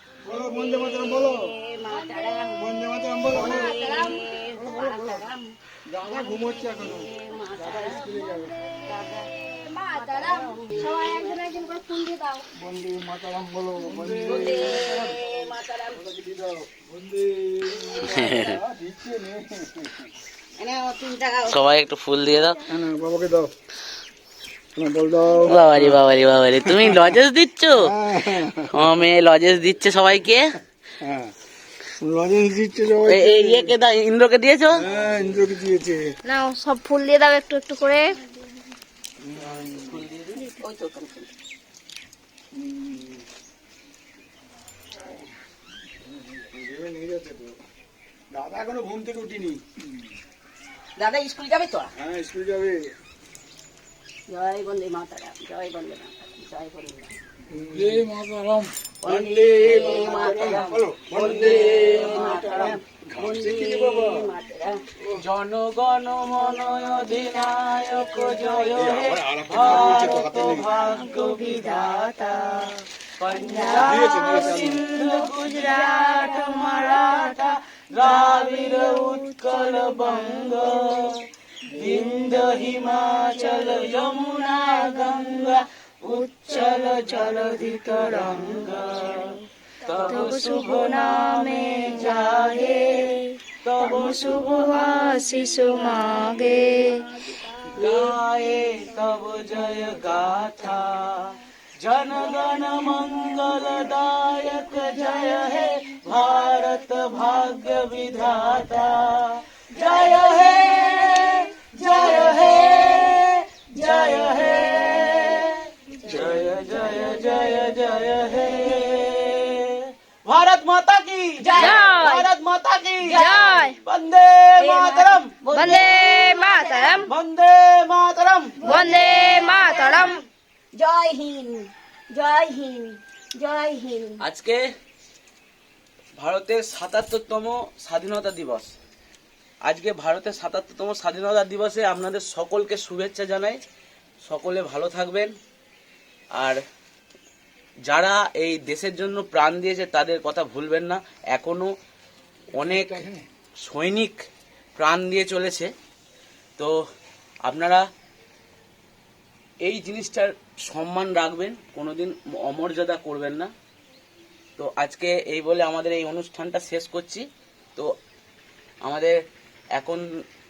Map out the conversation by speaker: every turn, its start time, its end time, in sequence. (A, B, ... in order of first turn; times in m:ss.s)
0:00.2-0:01.6 A
0:00.8-0:02.7 B
0:02.6-0:03.8 A
0:03.2-0:05.6 B
0:04.8-0:05.0 A
0:05.8-0:08.6 A
0:06.3-0:12.4 B
0:09.8-0:12.4 C
0:12.5-0:15.3 A
0:13.9-0:16.0 B
0:15.9-0:20.1 A
0:17.8-0:18.3 B
0:18.0-0:18.6 D
0:20.6-0:21.6 B
0:21.5-0:22.7 D
0:22.7-0:23.5 A
0:24.8-0:26.0 A
0:25.4-0:30.6 D
0:26.7-0:27.0 A
0:27.8-0:28.7 A
0:31.0-0:31.3 A
0:31.8-0:33.7 A
0:33.1-0:34.8 D
0:34.8-0:36.2 A
0:36.2-0:38.2 C
0:39.2-0:40.0 A
0:39.6-0:40.4 D
0:40.5-0:41.3 B
0:42.5-0:43.2 A
0:46.3-0:47.6 A
0:48.3-0:49.8 A
0:51.0-0:51.9 B
0:52.0-0:52.9 A
0:54.3-0:57.2 B
0:57.5-1:04.3 A
0:59.0-1:04.8 B
1:05.2-1:35.2 D
1:08.9-1:10.7 A
1:13.8-1:14.8 A
1:34.8-1:37.2 C
1:35.9-1:36.4 D
1:37.6-2:06.4 D
1:50.7-1:51.1 B
1:51.9-1:54.5 B
2:01.4-2:02.0 B
2:01.6-2:02.3 C
2:03.0-2:03.7 B
2:03.2-2:03.8 C
2:04.6-2:07.0 B
2:05.5-2:07.1 C
2:06.9-2:08.7 D
2:08.6-2:10.2 B
2:08.6-2:10.2 C
2:10.7-2:14.2 B
2:14.2-2:14.6 D
2:16.2-2:18.7 D
2:19.6-2:23.6 D
2:24.2-2:25.3 D
2:27.9-2:31.7 D
2:32.5-2:33.0 D
2:32.6-2:33.2 A
2:33.6-2:34.2 D
2:34.8-2:35.7 D
2:37.4-2:37.8 D
2:39.6-2:43.5 D
2:44.6-2:47.9 D
2:48.8-2:49.2 D
2:49.8-2:50.0 D